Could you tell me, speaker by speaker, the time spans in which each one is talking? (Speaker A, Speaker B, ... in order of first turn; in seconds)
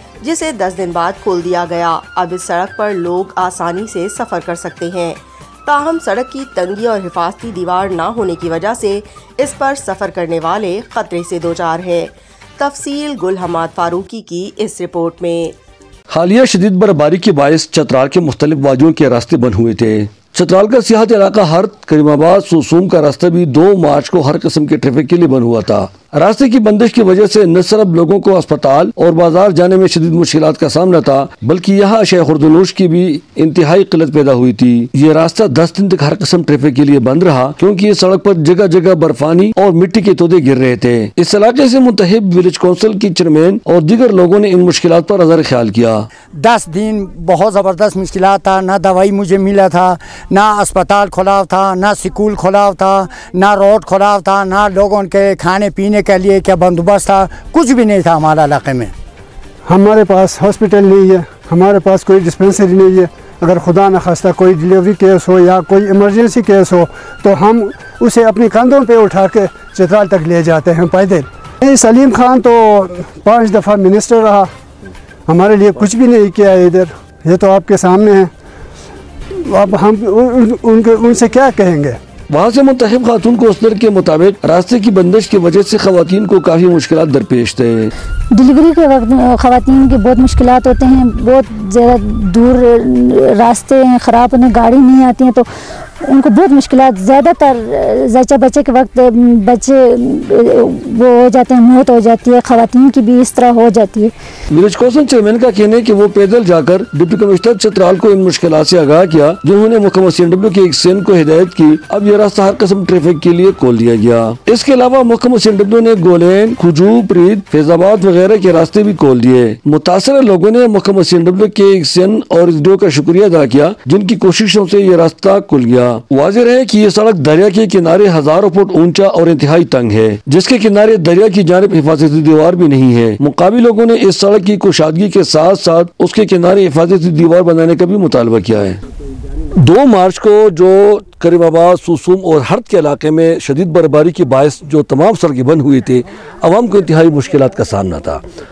Speaker A: 0.2-15.5
Speaker B: 16.1-46.1, 82.3-87.9, 104.5-138.8, 139.6-148.2
Speaker C: 46.4-58.9
Speaker D: 59.6-74.5, 75.3-78.3, 79.4-82.0
Speaker E: 88.3-95.5, 96.0-104.1